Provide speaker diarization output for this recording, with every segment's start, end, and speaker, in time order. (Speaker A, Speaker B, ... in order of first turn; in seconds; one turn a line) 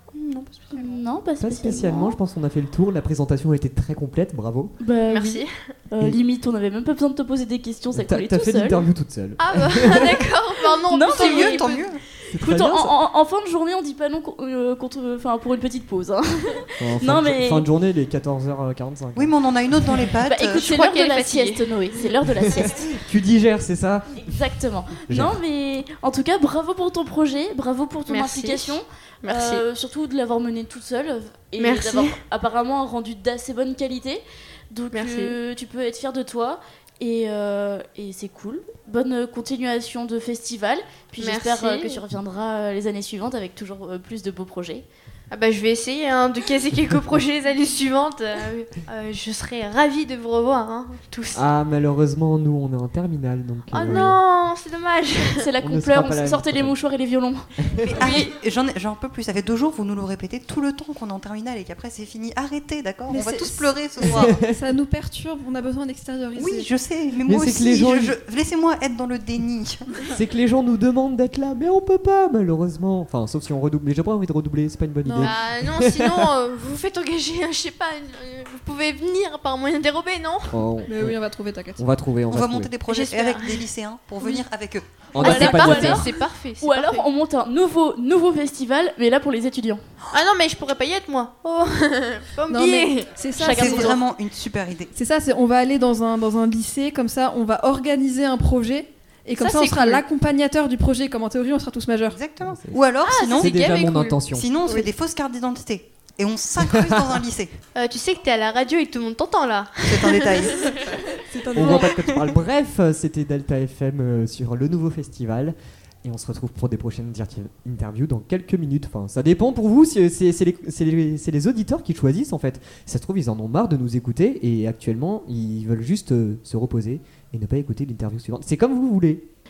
Speaker A: 0.2-1.0
Speaker B: 0.3-0.7
Speaker C: 0.7-2.2
Speaker D: 1.4-4.7
Speaker C: 4.8-8.8
Speaker A: 5.1-5.7
Speaker D: 7.9-10.2
Speaker A: 9.4-11.9
Speaker C: 10.8-11.8
Speaker B: 11.1-12.0
Speaker D: 12.2-12.9
Speaker C: 12.4-17.7
Speaker D: 16.8-19.3
Speaker B: 19.1-20.7
Speaker C: 20.2-23.0
Speaker A: 20.5-21.7
Speaker D: 22.6-24.2
Speaker C: 24.1-44.9
Speaker D: 25.1-25.4
Speaker A: 28.1-29.6
Speaker A: 31.6-32.2
Speaker A: 34.9-35.3
Speaker A: 41.2-42.0
Speaker A: 45.3-51.4
Speaker D: 51.3-54.2
Speaker A: 53.7-55.5
Speaker C: 55.4-58.3
Speaker D: 55.6-56.7
Speaker B: 57.8-64.4
Speaker E: 63.1-66.7
Speaker D: 64.0-64.5
Speaker B: 66.3-69.9
Speaker D: 67.2-68.2
Speaker D: 70.1-76.2
Speaker E: 75.0-75.3
Speaker A: 75.2-80.6
Speaker D: 80.5-81.2
Speaker E: 80.8-81.8
Speaker D: 81.8-82.7
Speaker B: 82.3-84.9
Speaker A: 82.9-83.7
Speaker A: 84.2-84.5
Speaker D: 85.1-86.0
Speaker C: 85.1-89.8
Speaker A: 85.2-87.0
Speaker A: 90.1-93.1
Speaker E: 92.5-94.0
Speaker C: 93.3-94.0
Speaker B: 93.5-94.9
Speaker E: 94.9-102.2
Speaker A: 99.3-100.0
Speaker B: 102.1-103.5
Speaker D: 102.5-104.5
Speaker A: 103.0-104.2
Speaker B: 104.3-107.5
Speaker D: 106.6-107.1
Speaker A: 107.7-111.0
Speaker B: 109.8-110.7
Speaker E: 111.2-112.2
Speaker D: 111.5-129.3
Speaker A: 111.6-111.9